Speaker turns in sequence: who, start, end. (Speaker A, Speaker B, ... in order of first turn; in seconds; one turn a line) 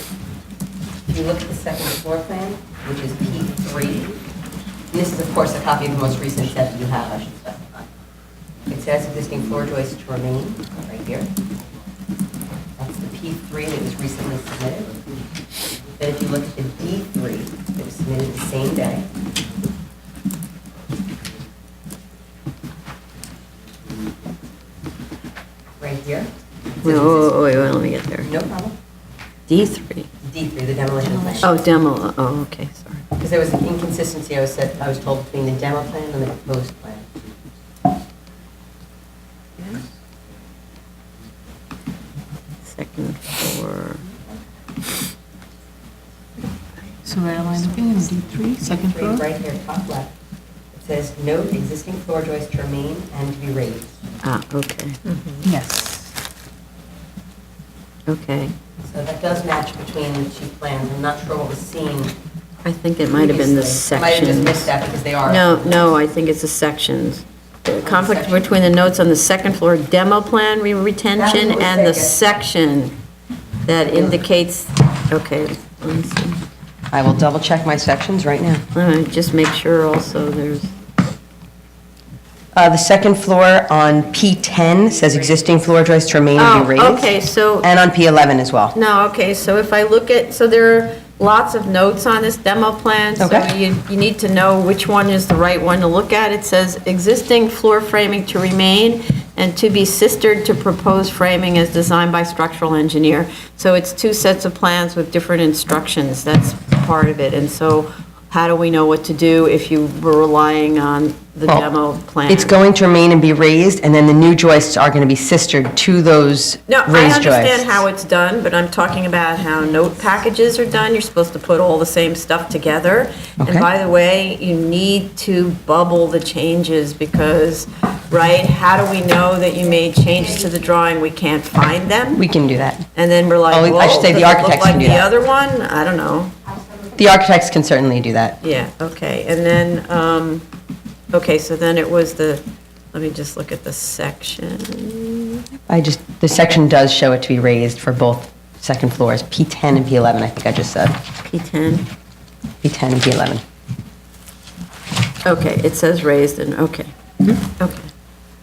Speaker A: 1.1-4.2
Speaker A: 4.9-7.9
Speaker A: 8.7-11.3
Speaker A: 12.8-14.9
Speaker A: 15.9-19.1
Speaker A: 25.8-26.3
Speaker A: 26.8-27.3
Speaker B: 26.8-28.3
Speaker A: 28.2-28.8
Speaker B: 29.5-30.1
Speaker A: 30.2-31.5
Speaker B: 31.4-33.0
Speaker A: 33.2-37.1
Speaker B: 42.7-44.0
Speaker C: 47.0-49.2
Speaker A: 48.6-50.1
Speaker A: 50.8-53.9
Speaker B: 54.2-55.0
Speaker C: 55.5-56.1
Speaker B: 58.1-58.5
Speaker A: 58.8-62.1
Speaker B: 62.6-64.7
Speaker A: 63.1-65.9
Speaker B: 65.2-73.0
Speaker A: 67.8-68.5
Speaker A: 71.1-72.2
Speaker B: 73.6-76.4
Speaker A: 73.8-74.2
Speaker A: 76.9-78.6
Speaker B: 78.7-80.7
Speaker A: 82.5-88.8
Speaker B: 86.4-87.7
Speaker B: 88.7-112.5
Speaker A: 93.2-93.5
Speaker A: 112.3-117.8
Speaker B: 116.7-132.2
Speaker A: 123.4-123.7
Speaker A: 132.2-132.8
Speaker B: 132.9-136.3
Speaker A: 133.5-135.1
Speaker A: 136.9-138.4
Speaker B: 138.4-140.4
Speaker B: 141.1-145.4
Speaker A: 145.7-151.0
Speaker B: 151.2-151.9
Speaker A: 152.6-153.4
Speaker B: 155.2-157.9